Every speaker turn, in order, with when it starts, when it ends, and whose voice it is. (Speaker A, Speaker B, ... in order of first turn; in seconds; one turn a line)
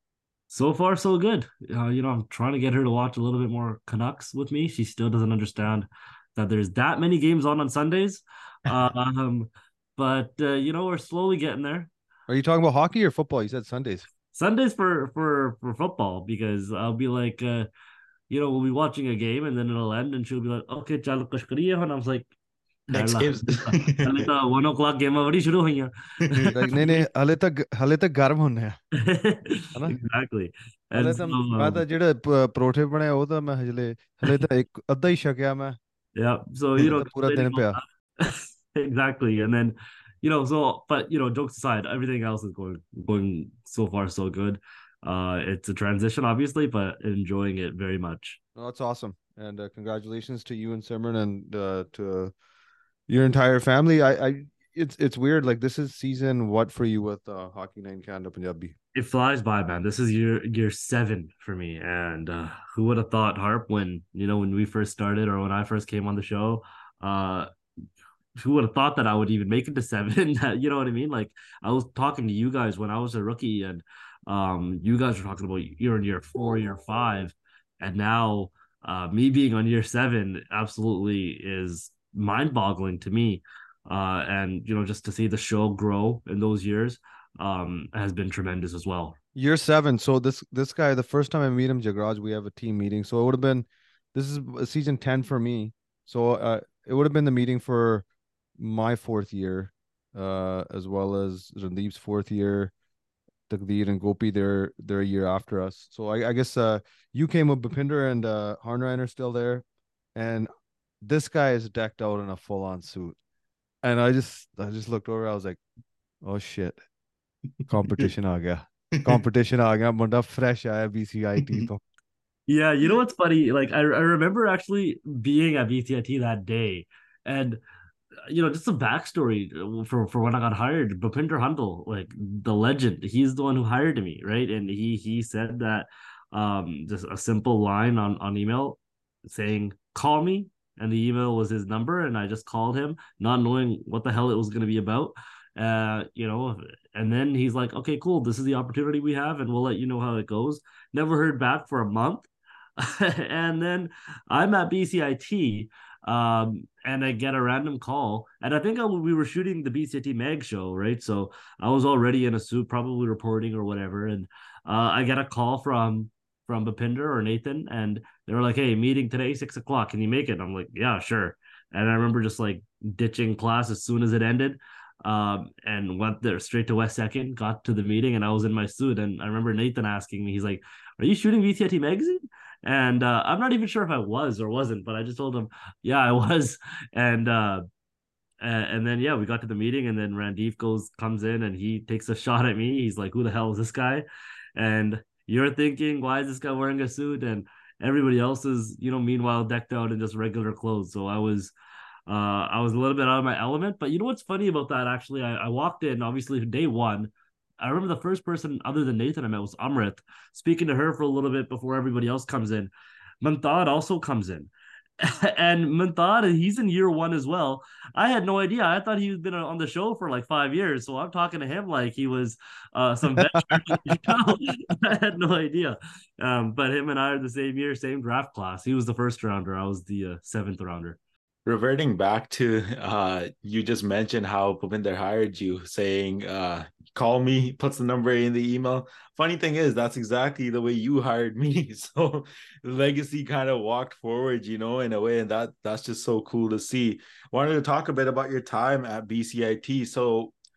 Speaker A: 0.5-11.9
Speaker B: 12.3-14.1
Speaker A: 14.3-17.7
Speaker A: 18.3-22.3
Speaker C: 22.9-24.3
Speaker A: 22.9-27.0
Speaker B: 26.4-28.8
Speaker A: 29.0-31.8
Speaker B: 30.9-35.8
Speaker A: 36.1-48.4
Speaker B: 36.8-37.8
Speaker B: 48.5-52.3
Speaker B: 53.1-58.7
Speaker A: 58.9-67.5
Speaker A: 68.4-89.2
Speaker B: 89.3-98.0
Speaker B: 98.6-102.7
Speaker B: 103.5-110.5
Speaker B: 111.0-113.2
Speaker B: 113.8-115.6
Speaker B: 116.2-116.8
Speaker B: 117.7-121.8
Speaker A: 122.5-127.6
Speaker A: 128.3-187.6
Speaker A: 188.4-194.0
Speaker A: 194.6-201.5
Speaker A: 202.1-231.0
Speaker B: 223.2-223.8
Speaker C: 231.4-250.3